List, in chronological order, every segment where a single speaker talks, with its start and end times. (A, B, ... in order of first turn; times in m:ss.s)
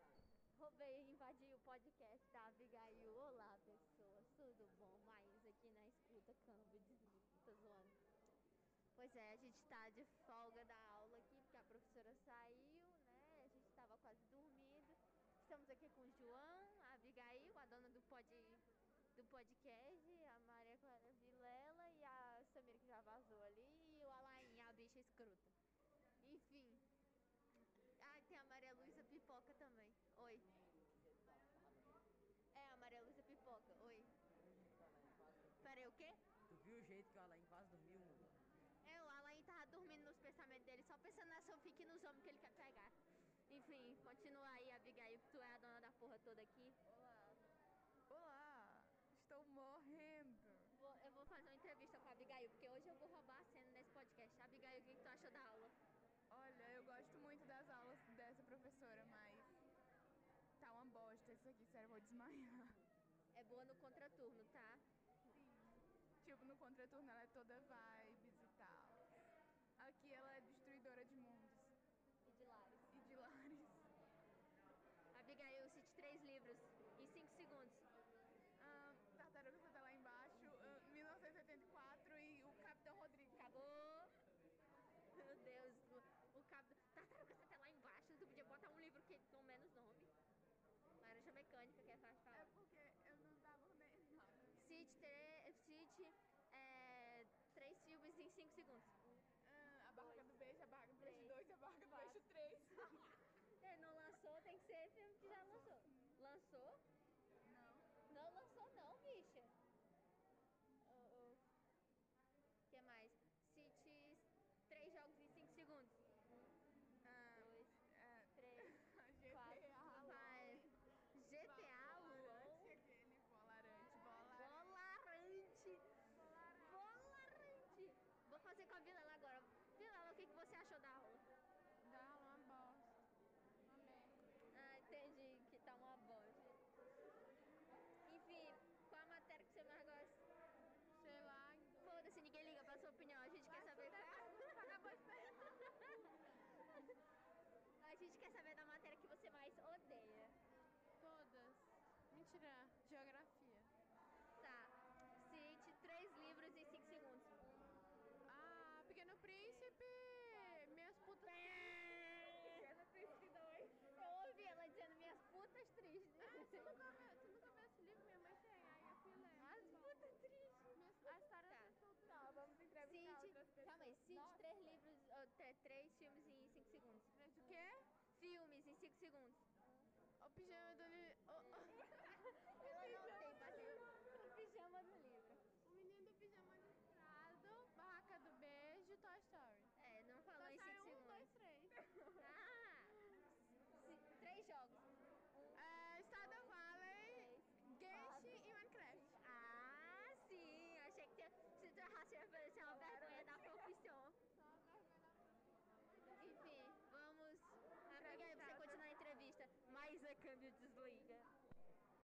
0:00.5-0:08.0 A
0:09.0-0:25.5 A
0:26.2-0:26.8 A
0:28.0-0:30.5 A
0:32.5-0:34.1 A
0:35.6-0:36.2 A
0:36.5-0:38.3 B
0:38.8-0:42.9 A
0:43.5-0:47.4 A
0:48.1-0:50.7 C
0:50.7-0:55.8 A
0:56.3-0:59.6 C
1:00.6-1:02.8 C
1:03.3-1:04.8 A
1:05.2-1:09.0 C
1:09.8-1:11.7 C
1:12.2-1:13.0 A
1:12.9-1:13.9 C
1:15.1-1:17.8 A
1:18.6-1:23.5 C
1:23.3-1:24.1 A
1:25.1-1:30.1 A
1:31.0-1:32.5 A
1:32.3-1:34.8 C
1:34.6-1:39.0 A
1:39.4-1:43.1 C
1:41.0-1:42.2 A
1:43.6-1:46.8 A
1:45.3-1:46.2 C
1:47.4-1:47.9 C
1:48.1-1:49.5 A
1:50.8-1:51.4 A
1:52.7-1:56.0 A
1:57.0-2:00.8 C
1:57.3-1:57.8 A
1:58.3-1:58.8 A
1:59.3-2:02.8 A
2:01.4-2:04.8 C
2:04.1-2:11.2 A
2:11.8-2:13.0 C
2:13.6-2:14.2 C
2:14.5-2:16.6 A
2:18.0-2:20.2 A
2:20.9-2:21.8 C
2:21.8-2:24.8 A
2:23.4-2:25.8 C
2:26.3-2:26.8 A
2:27.8-2:30.4 A
2:31.0-2:33.7 C
2:34.4-2:37.5 A
2:38.2-2:41.6 C
2:41.2-2:42.7 A
2:42.3-2:43.7 C
2:43.7-2:46.7 A
2:46.2-2:49.8 C
2:49.4-2:51.8 A
2:50.7-2:54.4 C
2:52.8-2:57.6 A
2:57.1-2:57.8 C
2:58.1-2:59.5 A
3:00.2-3:03.8 C
3:01.4-3:05.4 A
3:05.6-3:09.7 C
3:08.7-3:09.2 B
3:09.8-3:11.3 A
3:10.4-3:12.2 C
3:12.2-3:13.0 A
3:13.7-3:14.8 A
3:15.5-3:19.2 C
3:16.1-3:18.4 A
3:19.1-3:24.2 A
3:22.6-3:23.7 C
3:26.1-3:31.3 A
3:27.9-3:28.9 C